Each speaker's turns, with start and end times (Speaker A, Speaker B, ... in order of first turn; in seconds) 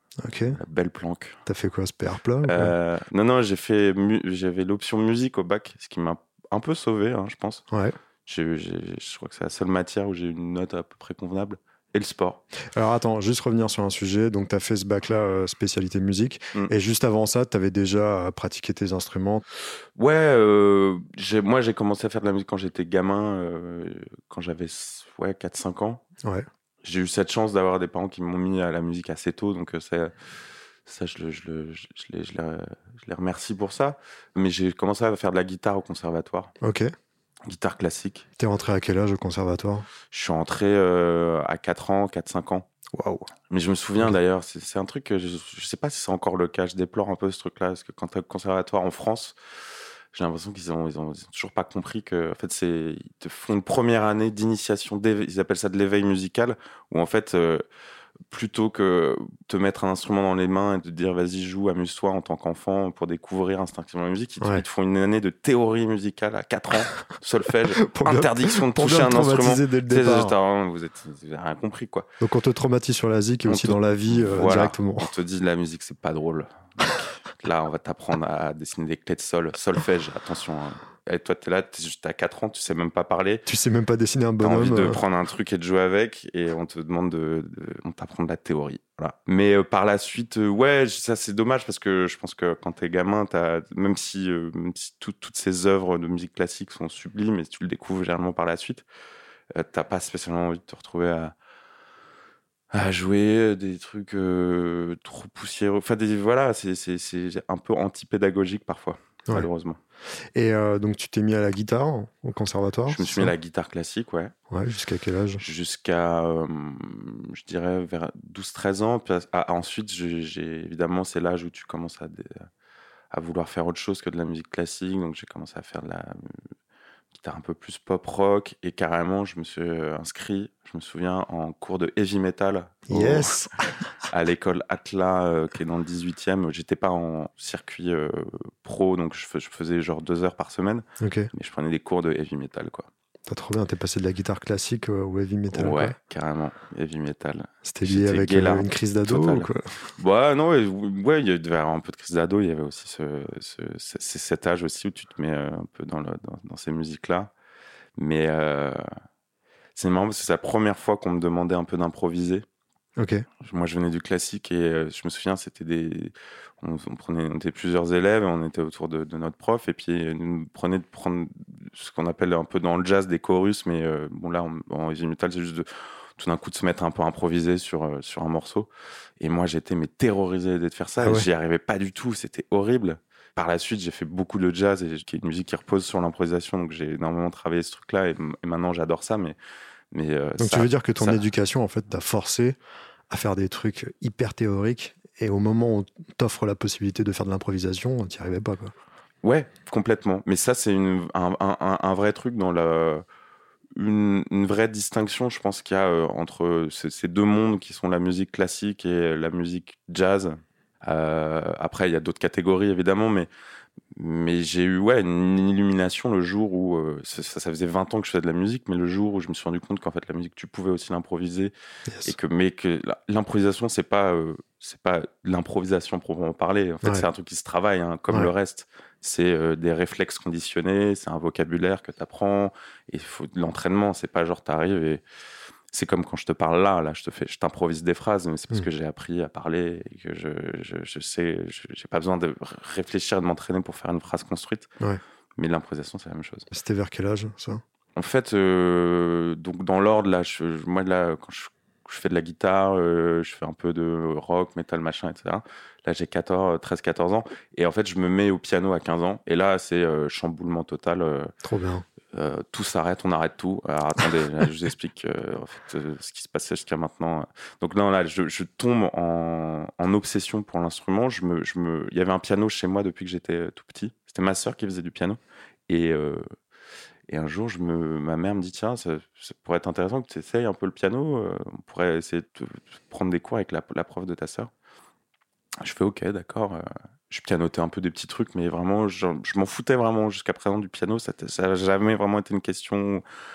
Speaker A: 0.2-0.6, 1.5-2.7, 7.7-8.0, 12.7-19.4, 36.6-36.9, 38.4-39.9, 42.9-43.3, 67.8-70.3, 72.2-75.1, 83.5-85.0, 110.3-113.3, 114.5-115.4, 132.9-133.7, 141.0-141.3, 143.3-145.9, 147.7-149.8, 163.0-163.2, 181.0-181.3, 190.4-192.6, 193.1-198.7, 221.9-222.2, 246.5-247.6, 261.4-261.9
Speaker B: 0.5-1.4, 2.4-7.6, 8.3-12.4, 20.0-26.0, 26.8-30.1, 30.9-36.5, 37.5-38.3, 40.1-42.7, 43.5-49.4, 50.1-57.6, 58.3-72.1, 73.5-83.4, 84.4-98.9, 99.5-101.3, 102.7-109.8, 112.9-114.3, 115.4-122.5, 123.1-126.4, 127.1-133.5, 134.1-142.9, 145.5-157.3, 158.0-158.8, 159.8-162.4, 163.4-189.4, 189.9-191.2, 199.2-203.1, 203.8-213.3, 213.9-221.5, 222.1-235.0, 235.7-244.7, 245.4-246.5, 247.9-261.3, 262.1-276.2, 277.1-284.5, 285.6-293.0